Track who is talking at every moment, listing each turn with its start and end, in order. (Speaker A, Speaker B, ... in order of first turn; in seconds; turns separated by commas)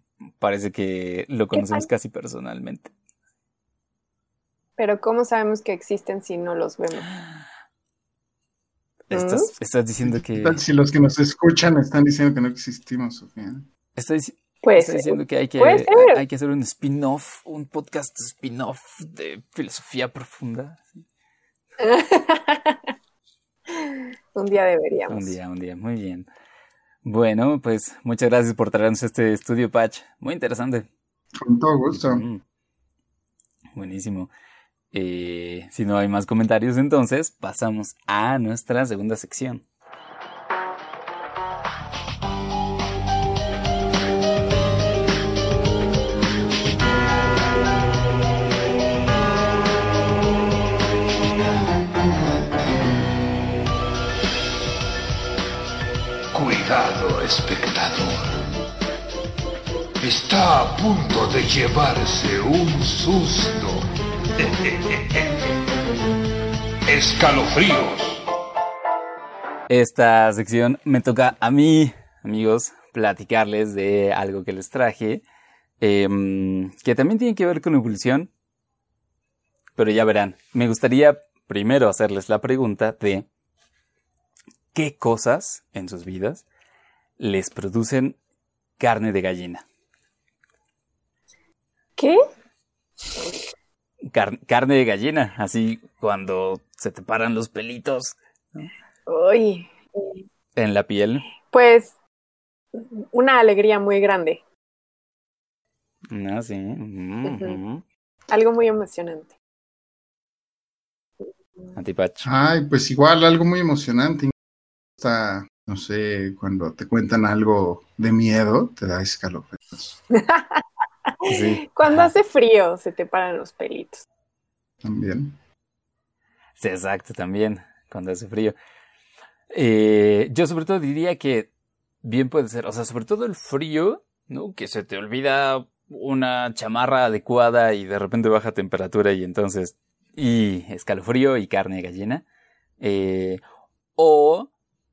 Speaker A: 0.4-2.9, Speaker B: 1.5-1.9, Speaker B: 4.8-7.1, Speaker A: 9.1-10.6, Speaker B: 9.1-9.5, Speaker C: 10.1-13.7, Speaker A: 14.0-21.0, Speaker B: 14.6-16.2, Speaker B: 21.8-22.8, Speaker B: 23.7-25.4, Speaker A: 25.1-26.3, Speaker A: 27.1-30.9, Speaker C: 31.4-32.2, Speaker A: 32.0-32.4, Speaker A: 33.8-34.3, Speaker A: 34.9-39.6, Speaker D: 56.3-58.4, Speaker D: 60.0-65.6, Speaker D: 66.9-68.3, Speaker A: 69.7-75.2, Speaker A: 75.8-78.3, Speaker A: 79.8-83.3, Speaker A: 84.8-86.4, Speaker A: 87.2-88.2, Speaker A: 88.8-89.6, Speaker A: 94.1-98.7, Speaker B: 99.1-100.2, Speaker A: 100.6-101.3, Speaker B: 101.5-102.0, Speaker B: 102.7-104.4, Speaker A: 106.1-107.8, Speaker B: 107.3-107.6, Speaker B: 108.3-109.3, Speaker B: 111.2-111.7, Speaker A: 111.8-112.3, Speaker C: 112.2-114.3, Speaker C: 115.0-120.0, Speaker B: 120.1-124.0, Speaker A: 121.2-122.1, Speaker C: 124.8-125.4, Speaker A: 126.6-128.6, Speaker A: 129.5-131.5, Speaker A: 132.0-142.2, Speaker A: 142.8-143.4, Speaker A: 144.0-144.5